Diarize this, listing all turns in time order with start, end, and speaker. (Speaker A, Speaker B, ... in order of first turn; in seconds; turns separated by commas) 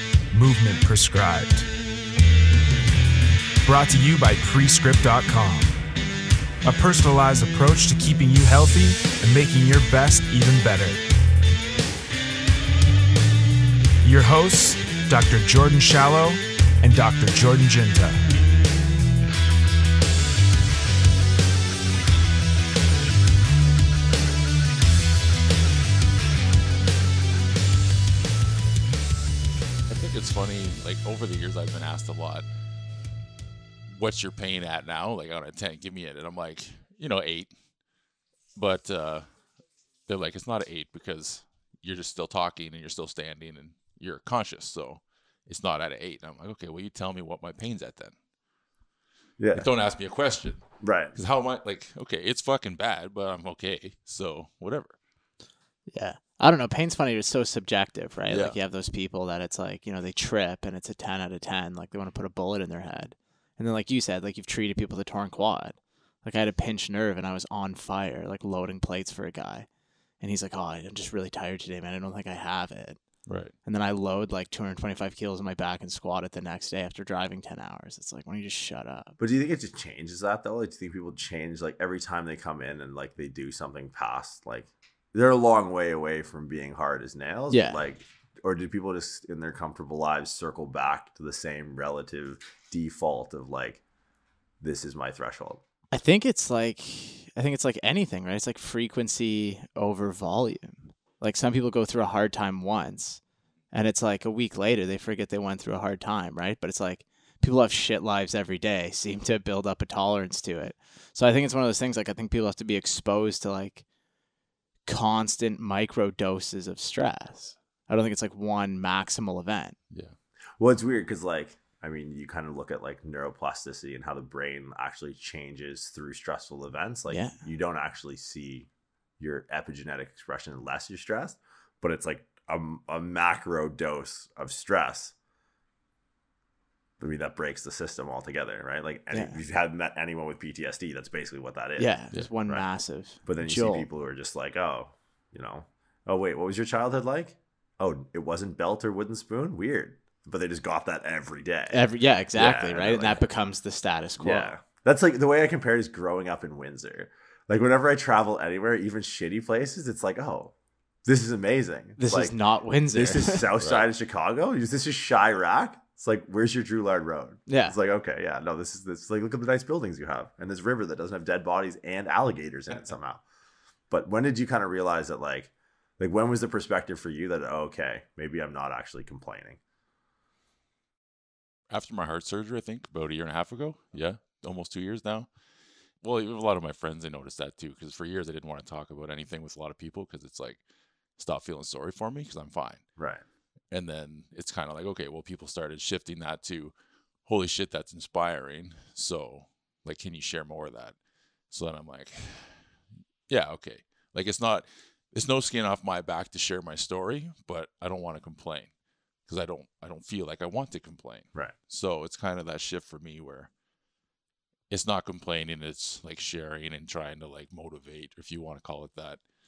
Speaker A: 0.3-1.7, Speaker A: 3.6-5.8, Speaker A: 6.6-11.0, Speaker A: 14.0-18.2, Speaker B: 29.9-32.5, Speaker B: 33.9-37.5, Speaker B: 38.5-39.2, Speaker B: 40.1-48.1, Speaker C: 49.4-49.7, Speaker B: 49.5-50.6, Speaker C: 50.8-51.1, Speaker B: 51.1-54.9, Speaker D: 55.9-69.7, Speaker B: 58.3-58.6, Speaker D: 70.2-73.0, Speaker B: 73.2-73.5, Speaker D: 73.7-79.2, Speaker C: 79.2-93.8, Speaker D: 87.5-87.8, Speaker C: 94.6-95.6, Speaker D: 95.9-103.2, Speaker D: 103.7-113.8, Speaker D: 114.8-119.8, Speaker C: 120.6-135.1, Speaker D: 127.1-127.3, Speaker C: 137.0-141.9, Speaker D: 139.1-139.4, Speaker D: 141.8-143.8, Speaker C: 143.2-153.2, Speaker D: 151.7-154.5, Speaker C: 154.2-160.5, Speaker C: 161.0-162.3, Speaker D: 162.0-163.5, Speaker C: 162.9-173.2, Speaker B: 163.6-163.8, Speaker D: 167.5-167.8, Speaker C: 173.9-179.6, Speaker B: 181.7-185.3, Speaker B: 186.0-190.6, Speaker B: 191.2-192.8, Speaker C: 193.0-193.2, Speaker B: 193.7-196.7, Speaker B: 197.2-200.9, Speaker B: 201.5-202.6, Speaker B: 203.3-208.7, Speaker B: 209.3-213.5, Speaker B: 214.7-219.2